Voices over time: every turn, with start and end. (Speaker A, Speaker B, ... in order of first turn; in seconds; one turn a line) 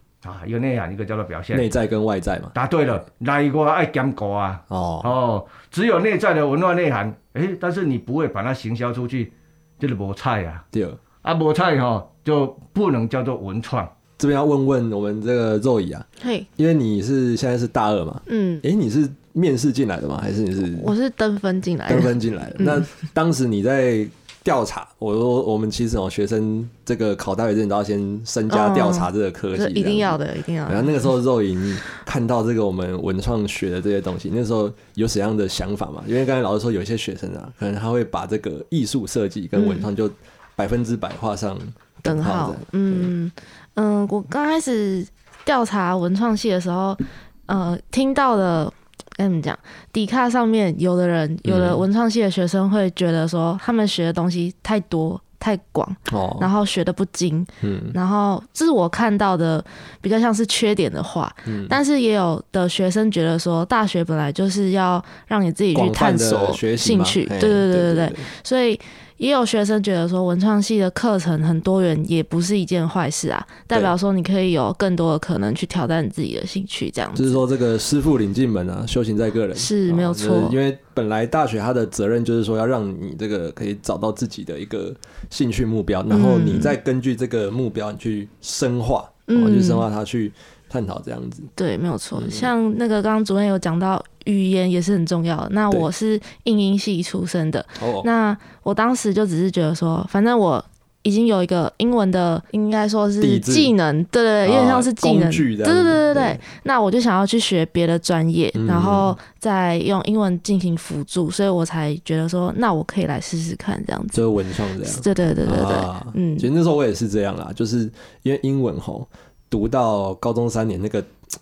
Speaker A: 0.2-1.7
Speaker B: 1.5-2.5
Speaker A: 2.5-10.6
Speaker B: 4.7-5.1
Speaker B: 10.7-11.0
Speaker A: 11.2-13.9
Speaker B: 14.2-20.9
Speaker C: 16.2-16.5
Speaker C: 18.3-18.6
Speaker C: 20.7-22.8
Speaker B: 21.9-43.1
Speaker C: 28.5-31.1
Speaker C: 39.5-39.9
Speaker C: 42.0-77.4
Speaker B: 51.4-51.8
Speaker B: 56.1-56.5
Speaker B: 57.6-58.0
Speaker B: 61.5-61.8
Speaker B: 65.7-68.3
Speaker B: 77.2-91.5
Speaker C: 79.5-80.6
Speaker C: 86.1-86.8
Speaker C: 89.3-89.8
Speaker C: 91.6-114.2
Speaker B: 92.2-92.5
Speaker B: 97.8-98.1
Speaker B: 103.2-103.7
Speaker B: 104.4-106.4
Speaker B: 108.5-109.2
Speaker B: 114.1-121.1
Speaker C: 114.8-116.5